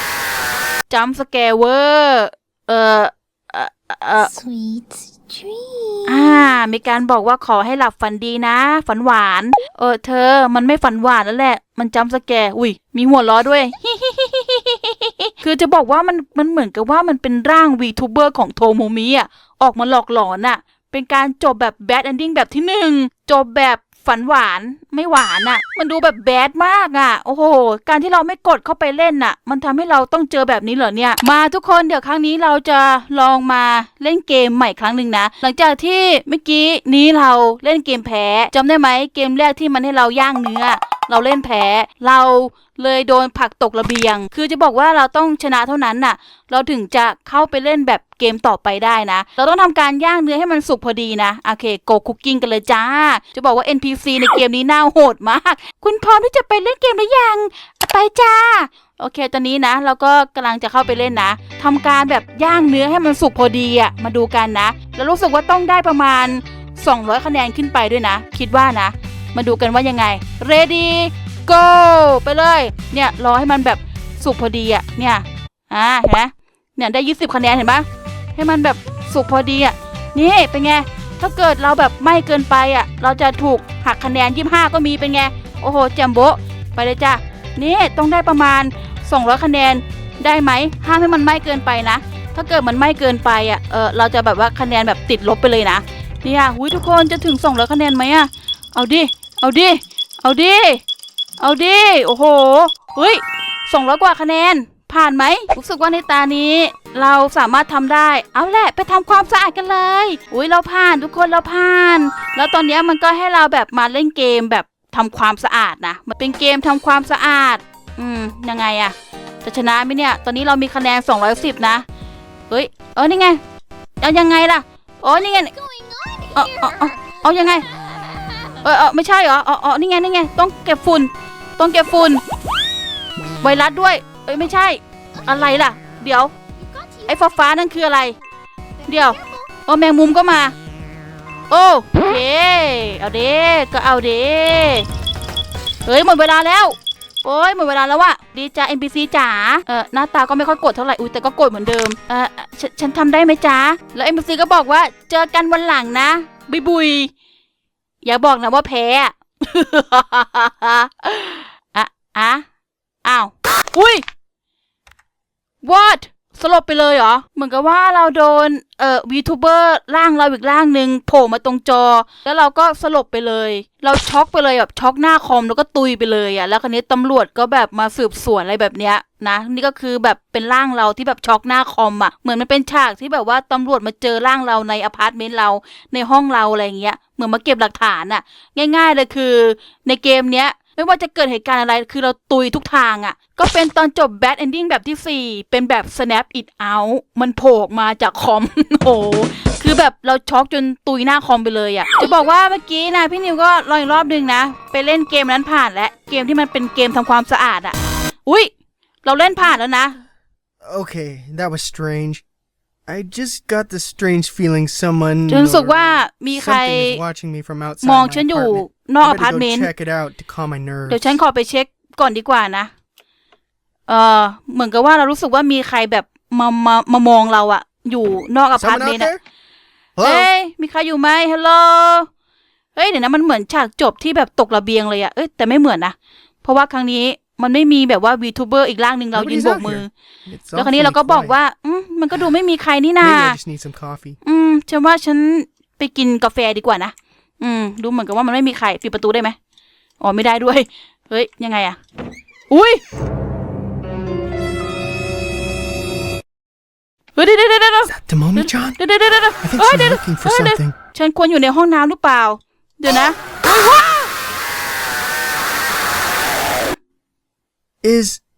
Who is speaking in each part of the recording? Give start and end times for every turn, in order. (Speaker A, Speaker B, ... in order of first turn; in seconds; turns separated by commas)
Speaker A: 0.9-4.3, Speaker B: 4.2-6.5, Speaker A: 6.0-100.8, Speaker A: 101.4-121.8, Speaker A: 122.5-123.4, Speaker A: 124.0-125.5, Speaker B: 125.3-127.2, Speaker A: 126.3-127.7, Speaker B: 128.0-128.6, Speaker A: 128.6-132.2, Speaker A: 133.4-136.3, Speaker B: 136.7-137.1, Speaker A: 137.1-138.1, Speaker A: 138.8-140.5, Speaker A: 141.5-144.9, Speaker A: 145.8-157.1, Speaker A: 158.0-162.4, Speaker A: 163.0-164.0, Speaker A: 165.6-208.5, Speaker A: 209.0-209.9, Speaker C: 210.6-212.2, Speaker C: 212.9-221.2, Speaker A: 215.3-217.0, Speaker A: 217.8-219.7, Speaker A: 220.9-222.7, Speaker A: 223.9-229.1, Speaker C: 228.5-229.2, Speaker C: 229.9-230.3, Speaker A: 230.0-232.1, Speaker A: 232.7-239.9, Speaker C: 239.1-241.4, Speaker A: 240.5-243.4, Speaker C: 243.0-244.2, Speaker A: 244.2-249.3, Speaker A: 250.0-251.8, Speaker A: 252.5-252.8, Speaker A: 257.1-264.1, Speaker C: 257.9-258.8, Speaker C: 259.4-260.7, Speaker C: 267.8-268.2